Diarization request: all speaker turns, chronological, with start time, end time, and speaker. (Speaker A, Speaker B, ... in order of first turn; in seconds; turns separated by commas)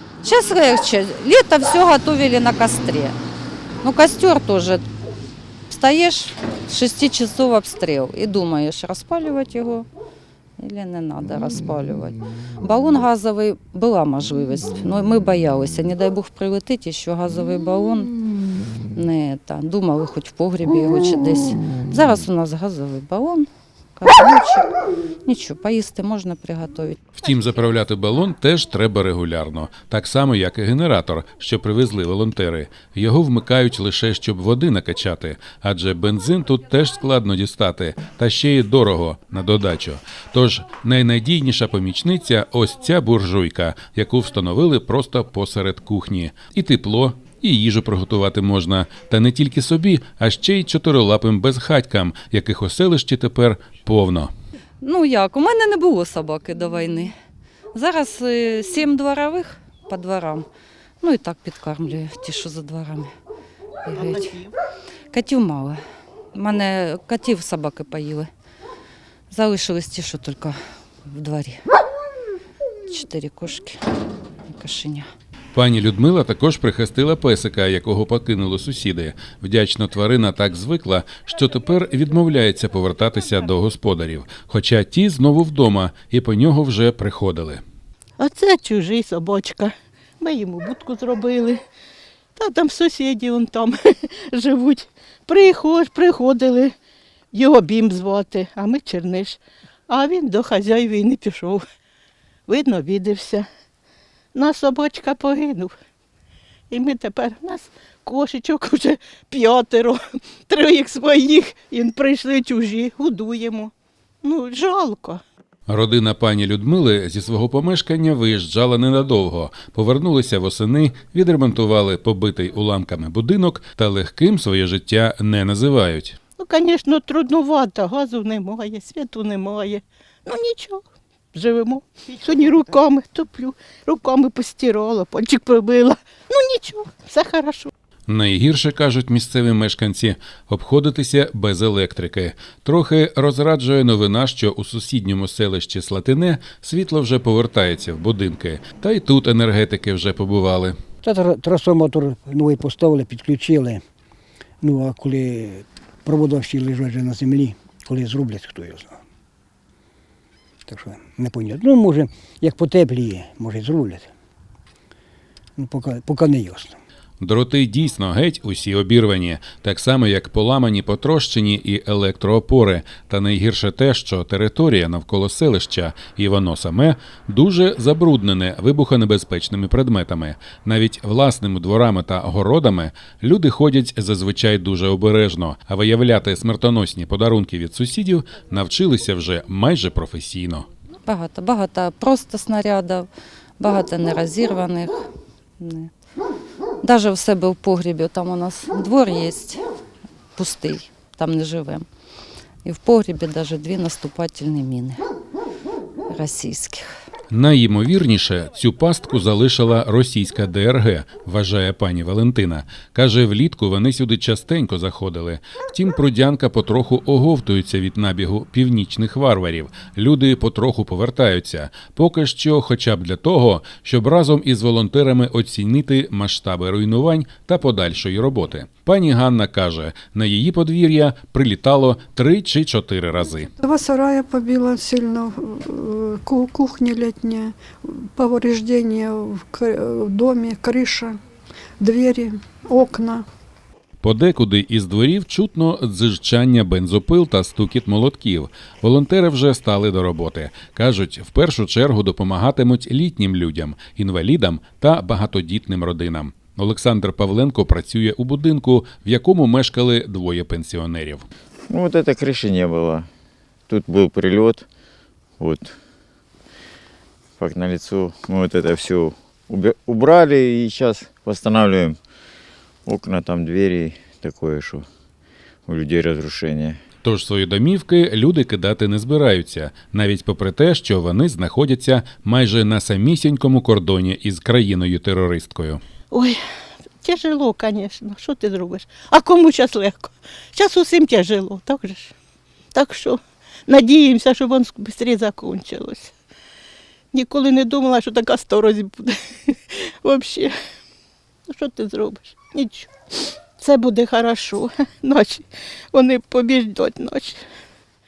Speaker A: 0.2-3.2, Speaker A: 3.8-4.9, Speaker A: 5.7-9.9, Speaker A: 10.6-18.1, Speaker A: 18.9-24.7, Speaker A: 25.3-27.1, Speaker B: 27.2-54.3, Speaker A: 54.8-57.1, Speaker A: 57.7-60.5, Speaker A: 61.0-63.1, Speaker A: 63.9-64.4, Speaker C: 63.9-64.5, Speaker A: 65.1-65.8, Speaker A: 66.3-68.3, Speaker A: 69.3-71.6, Speaker A: 72.9-73.8, Speaker A: 74.5-75.1, Speaker B: 75.5-87.6, Speaker C: 88.2-91.6, Speaker C: 92.4-96.7, Speaker C: 97.3-101.6, Speaker C: 102.5-103.5, Speaker C: 104.3-105.7, Speaker C: 106.7-113.7, Speaker C: 114.2-115.2, Speaker B: 115.7-126.2, Speaker C: 126.4-130.8, Speaker C: 131.3-137.7, Speaker B: 138.1-150.8, Speaker D: 151.0-153.8, Speaker D: 154.6-159.0, Speaker D: 160.7-164.1, Speaker D: 165.6-166.8, Speaker B: 167.2-190.7, Speaker A: 191.1-193.1, Speaker A: 193.6-195.0, Speaker A: 195.6-195.9, Speaker A: 196.8-199.6, Speaker A: 200.4-201.8, Speaker A: 202.6-205.0, Speaker A: 206.1-206.8, Speaker B: 207.3-233.5, Speaker E: 233.6-241.2, Speaker E: 241.8-243.3, Speaker B: 244.0-261.3, Speaker F: 261.7-263.1, Speaker F: 263.7-264.7, Speaker F: 265.4-265.8, Speaker F: 267.4-272.0, Speaker F: 272.9-274.9, Speaker F: 275.7-276.8, Speaker B: 277.0-285.8, Speaker C: 286.1-286.4, Speaker C: 287.0-292.1, Speaker C: 292.7-296.1, Speaker C: 297.1-300.5, Speaker C: 301.5-302.9, Speaker C: 303.6-307.4